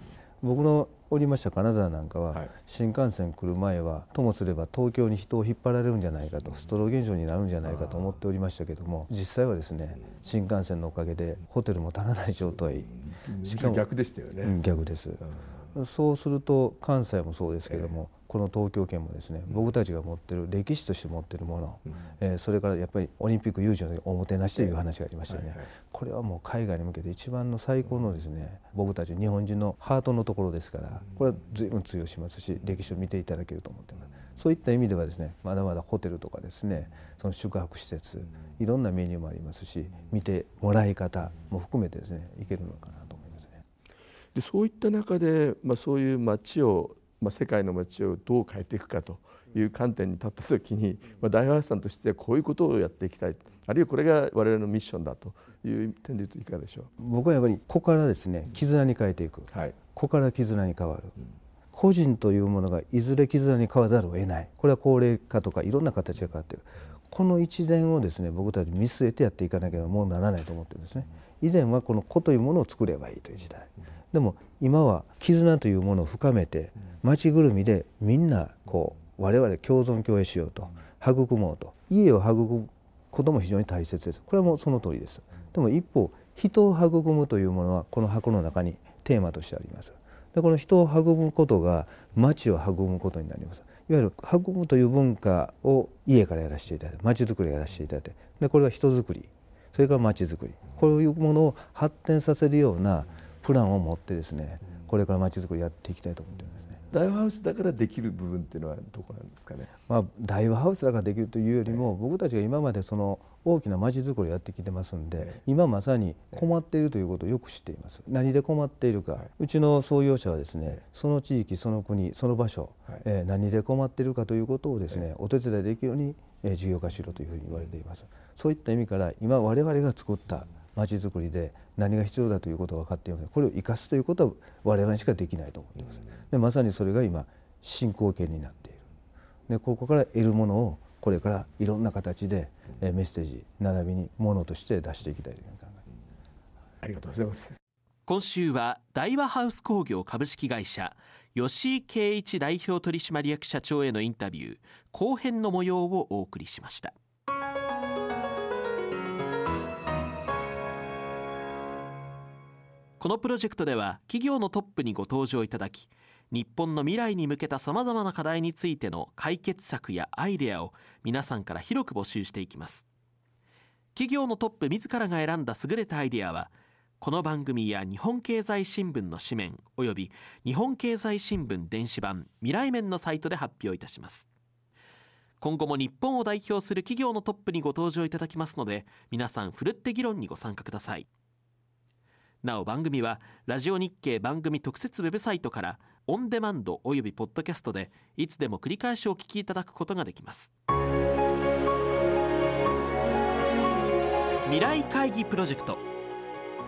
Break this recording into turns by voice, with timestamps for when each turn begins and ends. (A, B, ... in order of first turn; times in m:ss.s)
0:00.4-0:13.8 A
0:07.7-0:08.2 B
0:13.0-0:14.6 B
0:14.4-0:43.6 A
0:25.3-0:25.7 B
0:44.4-0:56.9 B
0:57.0-1:01.2 A
0:59.5-0:59.8 B
1:01.7-1:46.8 A
1:46.9-1:49.7 B
1:49.9-2:18.9 A
2:19.5-2:25.8 A
2:26.8-2:27.6 B
2:28.1-2:36.9 C
2:43.0-2:52.9 C
2:54.0-3:04.3 C
3:05.4-3:11.1 C
3:12.4-3:20.5 C
3:24.4-3:25.8 C